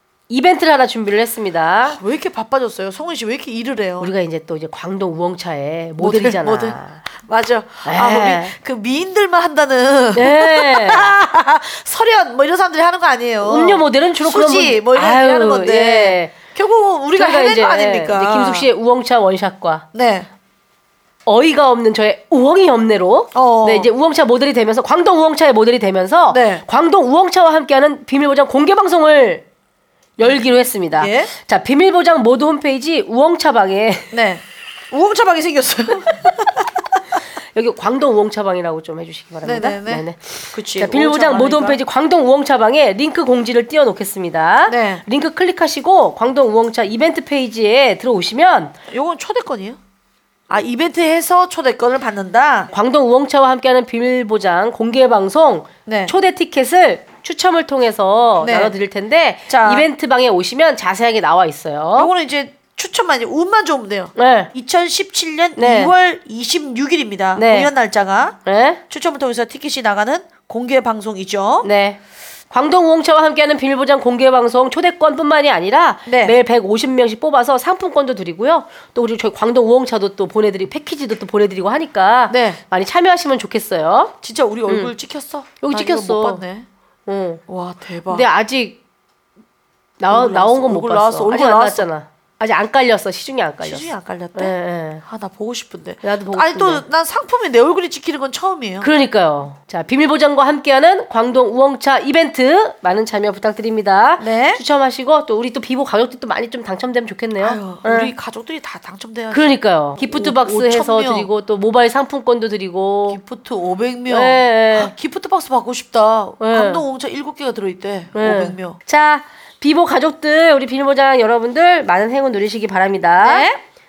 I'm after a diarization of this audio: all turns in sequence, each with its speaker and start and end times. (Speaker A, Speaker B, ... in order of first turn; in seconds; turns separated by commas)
Speaker A: 0.3-2.0, Speaker B: 1.9-4.1, Speaker A: 4.0-7.0, Speaker B: 6.0-18.7, Speaker A: 7.8-8.5, Speaker A: 10.2-11.1, Speaker A: 13.4-16.3, Speaker A: 17.2-19.9, Speaker B: 19.9-20.3, Speaker A: 21.3-29.4, Speaker B: 23.4-23.9, Speaker B: 26.3-26.6, Speaker A: 30.2-34.1, Speaker B: 31.0-31.3, Speaker B: 34.1-36.7, Speaker A: 37.5-48.7, Speaker B: 39.4-41.8, Speaker B: 44.7-45.0, Speaker B: 48.9-49.8, Speaker B: 50.5-52.7, Speaker A: 52.7-62.1, Speaker B: 55.9-56.1, Speaker B: 58.4-58.8, Speaker B: 59.5-59.9, Speaker B: 62.0-71.7, Speaker A: 64.2-64.5, Speaker A: 65.6-65.9, Speaker A: 67.4-67.7, Speaker A: 68.5-68.8, Speaker A: 71.6-72.0, Speaker A: 72.5-84.1, Speaker B: 76.1-76.3, Speaker B: 82.3-82.6, Speaker B: 84.2-86.7, Speaker A: 84.7-84.9, Speaker A: 85.6-86.4, Speaker A: 87.1-87.4, Speaker B: 87.5-88.3, Speaker A: 88.1-88.8, Speaker A: 90.0-95.0, Speaker B: 90.1-91.9, Speaker B: 93.6-98.9, Speaker A: 96.0-96.8, Speaker A: 98.8-108.1, Speaker B: 104.2-104.6, Speaker B: 107.4-111.3, Speaker A: 109.3-113.2, Speaker B: 113.1-118.8, Speaker A: 114.1-114.9, Speaker A: 116.4-116.8, Speaker A: 118.2-123.5, Speaker B: 123.2-123.6